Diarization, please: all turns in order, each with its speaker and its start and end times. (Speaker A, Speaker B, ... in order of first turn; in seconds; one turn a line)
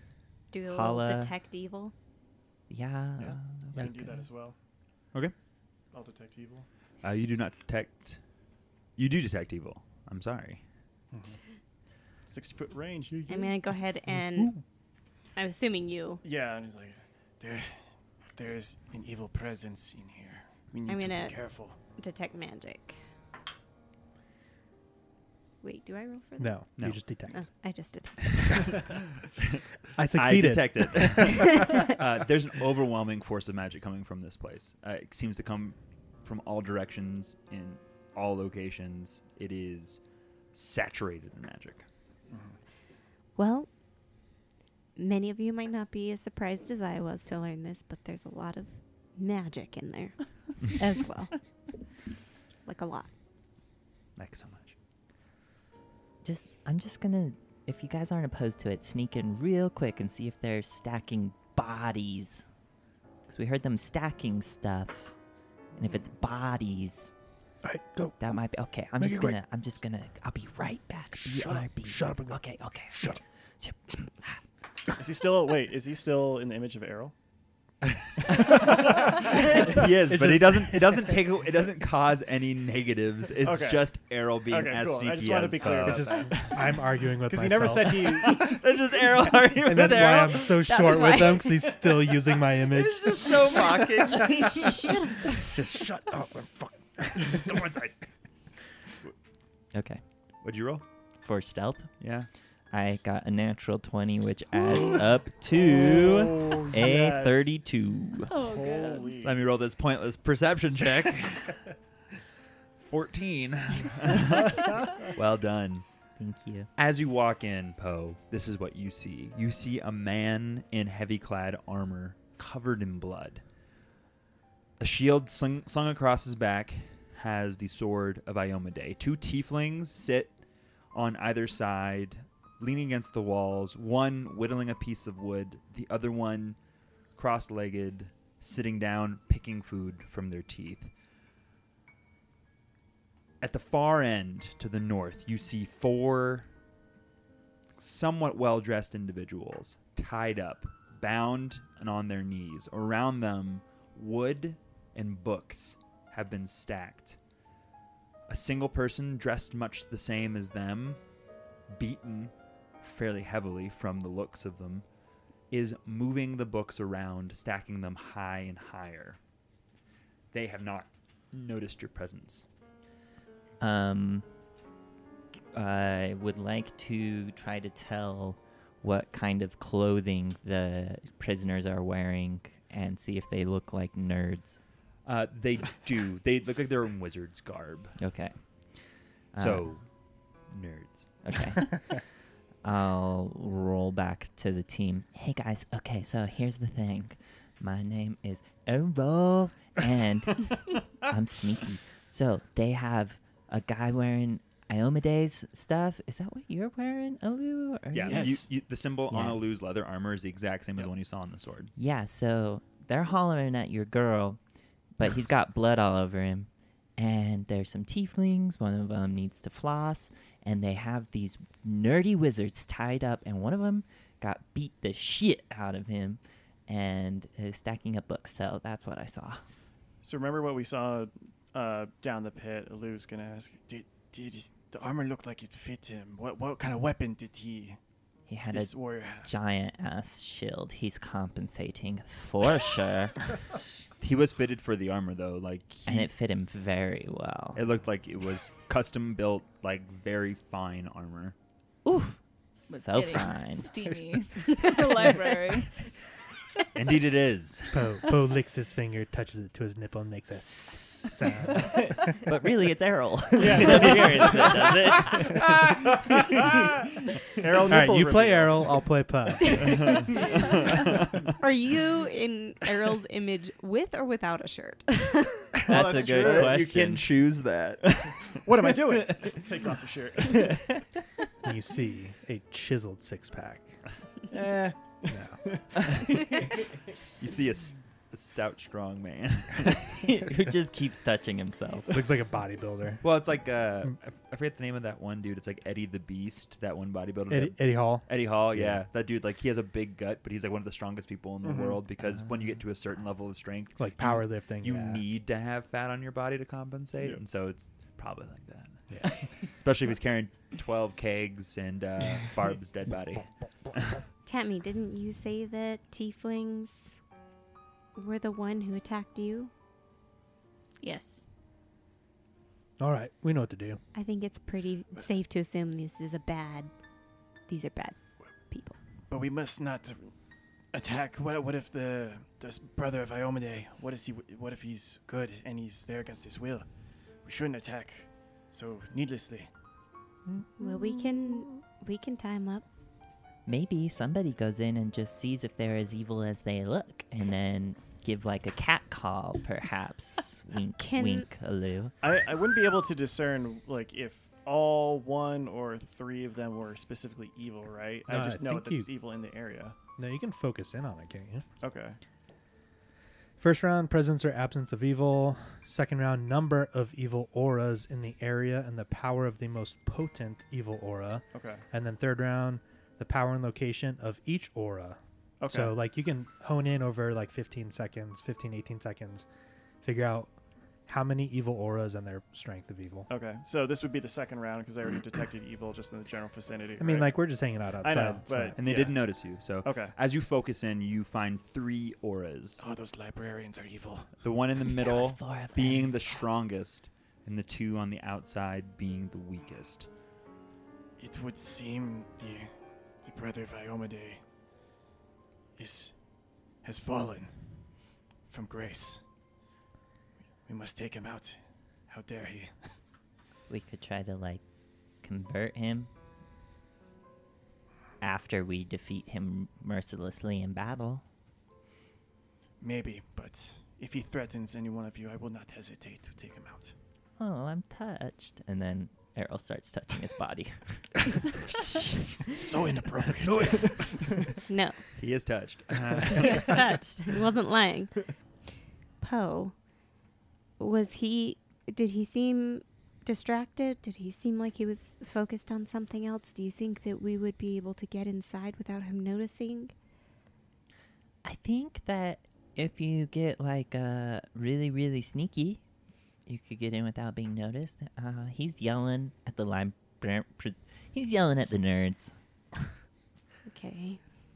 Speaker A: 0.5-1.9
Speaker B: 0.7-1.3
Speaker B: 2.7-4.2
Speaker C: 3.2-4.5
Speaker C: 5.9-6.7
Speaker D: 7.0-8.2
Speaker D: 8.9-10.6
Speaker C: 11.1-11.4
Speaker C: 12.2-13.5
Speaker A: 13.3-14.6
Speaker E: 14.2-14.6
Speaker A: 15.3-16.2
Speaker C: 16.2-21.8
Speaker A: 20.9-21.4
Speaker A: 21.9-23.0
Speaker A: 25.6-26.6
Speaker E: 26.4-27.4
Speaker A: 27.3-28.8
Speaker E: 29.9-31.8
Speaker D: 30.1-40.0
Speaker D: 40.5-41.8
Speaker C: 42.3-42.6
Speaker A: 43.4-43.7
Speaker A: 45.0-51.4
Speaker A: 52.6-53.1
Speaker D: 54.1-54.8
Speaker B: 56.2-62.5
Speaker B: 63.3-65.2
Speaker B: 65.8-67.1
Speaker E: 67.6-68.4
Speaker B: 68.2-74.3
Speaker E: 69.0-69.4
Speaker E: 71.2-73.2
Speaker C: 75.0-77.1
Speaker D: 77.8-86.5
Speaker C: 78.4-79.8
Speaker E: 80.0-81.2
Speaker C: 83.4-83.9
Speaker C: 84.5-88.5
Speaker E: 85.8-88.4
Speaker D: 88.2-90.6
Speaker E: 89.6-97.8
Speaker A: 90.7-91.8
Speaker D: 92.7-94.9
Speaker A: 94.6-95.4
Speaker D: 97.5-97.9
Speaker B: 99.7-100.0
Speaker D: 100.4-100.8
Speaker B: 101.2-101.9
Speaker D: 102.0-102.3
Speaker B: 102.7-108.3
Speaker C: 105.5-107.5
Speaker F: 108.3-109.2
Speaker C: 108.4-109.4
Speaker D: 109.2-111.6
Speaker D: 112.8-115.8
Speaker B: 116.2-116.7
Speaker D: 116.8-123.4
Speaker D: 124.8-130.3
Speaker D: 130.9-136.6
Speaker D: 137.2-140.9
Speaker D: 143.4-146.5
Speaker D: 147.8-157.2
Speaker D: 158.3-161.0
Speaker D: 161.7-164.8
Speaker D: 165.5-169.2
Speaker D: 170.3-172.4
Speaker B: 173.6-174.2
Speaker B: 175.5-184.6
Speaker D: 185.0-188.0
Speaker B: 188.0-188.3
Speaker B: 189.3-189.7
Speaker D: 189.3-189.8
Speaker D: 190.5-191.2
Speaker B: 191.2-192.0
Speaker B: 192.6-208.5
Speaker D: 207.9-211.7
Speaker C: 208.1-208.5
Speaker B: 209.1-209.4
Speaker B: 211.8-214.4
Speaker B: 214.9-229.4
Speaker C: 230.0-237.8
Speaker B: 238.3-243.2
Speaker C: 238.4-239.3
Speaker D: 244.0-246.1
Speaker B: 245.9-247.6
Speaker D: 247.5-251.3
Speaker B: 251.8-253.9
Speaker F: 252.7-255.8
Speaker D: 256.7-257.8
Speaker E: 257.7-262.2
Speaker B: 260.3-265.5
Speaker C: 263.4-264.7
Speaker D: 265.2-266.7
Speaker C: 267.4-268.9
Speaker E: 267.7-269.9
Speaker A: 269.4-269.9
Speaker D: 269.6-271.3
Speaker A: 271.4-275.6
Speaker C: 275.6-276.6
Speaker B: 275.7-277.1
Speaker D: 276.0-278.5
Speaker C: 278.4-280.6
Speaker B: 280.4-280.8
Speaker E: 281.4-283.8
Speaker C: 284.3-286.5
Speaker E: 285.1-285.4
Speaker D: 287.2-290.0
Speaker B: 290.0-291.9
Speaker E: 291.9-293.0
Speaker D: 293.0-314.0
Speaker E: 297.3-298.8
Speaker C: 301.4-301.8
Speaker E: 303.8-305.0
Speaker A: 314.2-317.0
Speaker A: 317.9-319.5
Speaker F: 320.8-321.2
Speaker E: 322.8-323.8
Speaker A: 323.9-326.7
Speaker A: 327.5-328.8
Speaker C: 329.1-339.5
Speaker A: 340.6-342.6
Speaker B: 343.4-351.9
Speaker A: 350.8-351.3
Speaker C: 352.0-359.8
Speaker E: 358.1-358.9
Speaker E: 360.0-361.4
Speaker C: 361.6-362.0
Speaker E: 363.4-379.2
Speaker C: 371.3-371.6
Speaker C: 375.4-375.8
Speaker E: 379.8-380.3
Speaker E: 380.9-383.1
Speaker C: 383.1-387.2
Speaker E: 386.8-388.6
Speaker C: 387.8-389.9
Speaker D: 388.6-392.6
Speaker C: 392.6-394.2
Speaker D: 394.2-399.9
Speaker B: 394.7-396.0
Speaker C: 401.0-404.2
Speaker C: 405.6-405.9
Speaker C: 406.6-407.7
Speaker C: 408.3-409.0
Speaker C: 410.4-412.7
Speaker B: 413.5-414.4
Speaker B: 415.0-415.9
Speaker B: 418.0-421.0
Speaker C: 422.6-426.7
Speaker B: 427.2-431.1
Speaker C: 432.3-434.4
Speaker D: 433.2-433.9
Speaker A: 434.5-434.8
Speaker D: 434.9-436.8
Speaker A: 436.1-438.1
Speaker A: 439.0-439.5
Speaker A: 440.6-449.7
Speaker B: 451.2-455.6
Speaker B: 456.2-462.1
Speaker A: 463.4-464.0